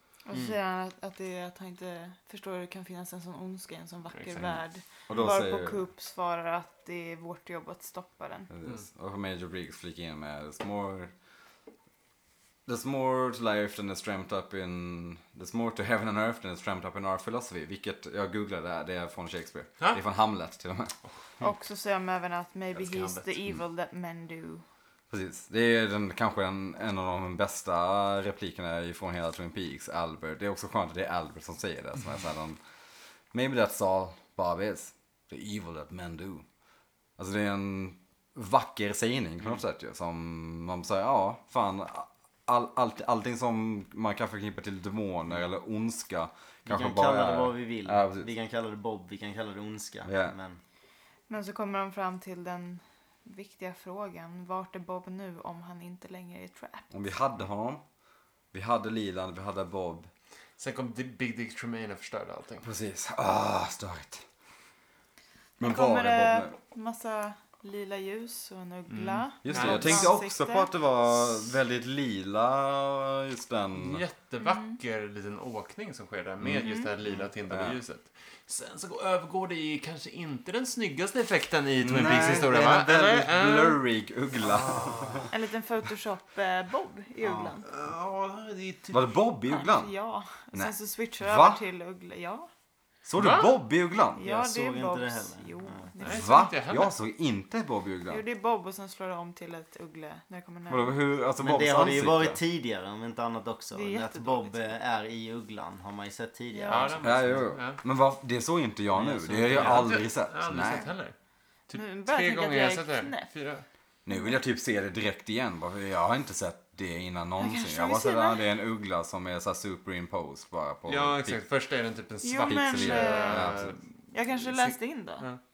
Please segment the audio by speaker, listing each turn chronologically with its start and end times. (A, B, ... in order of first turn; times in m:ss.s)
0:00.2-0:08.5 A
0:04.1-0:04.6 B
0:05.1-0:05.8 C
0:08.5-0:11.1 C
0:12.6-0:20.9 C
0:21.4-0:24.6 A
0:22.7-0:23.3 B
0:25.1-0:32.6 C
0:33.3-0:36.4 C
0:37.2-0:48.3 C
0:46.7-0:50.6 D
0:50.0-0:50.3 C
0:51.3-0:56.9 A
0:56.9-0:57.8 C
0:58.5-1:00.1 C
1:00.6-1:02.7 B
1:02.6-1:04.2 C
1:05.6-1:06.5 C
1:05.6-1:10.7 A
1:08.9-1:10.1 B
1:09.4-1:14.0 C
1:13.7-1:23.8 B
1:14.4-1:14.8 A
1:16.4-1:16.7 C
1:16.6-1:16.9 A
1:17.5-1:17.8 C
1:21.8-1:25.3 C
1:24.5-1:25.2 B
1:24.7-1:25.1 D
1:25.3-1:27.6 A
1:27.2-1:27.6 D
1:27.6-1:29.1 B
1:28.9-1:29.9 C
1:29.5-1:32.5 A
1:30.5-1:31.6 C
1:33.0-1:34.2 C
1:33.2-1:33.6 B
1:34.1-1:36.3 A
1:34.2-1:35.9 D
1:36.0-1:36.9 B
1:36.0-1:38.2 C
1:38.1-1:41.0 A
1:40.7-1:42.4 C
1:41.4-1:47.5 D
1:43.7-1:44.7 A
1:46.5-1:46.9 A
1:46.7-1:47.8 B
1:47.0-1:50.9 C
1:48.9-1:49.9 D
1:49.4-1:51.1 B
1:51.7-1:53.6 B
1:51.7-1:53.3 A
1:54.0-2:01.4 C
1:57.4-1:58.4 A
2:00.8-2:05.4 B
2:02.2-2:05.3 A
2:02.4-2:03.7 C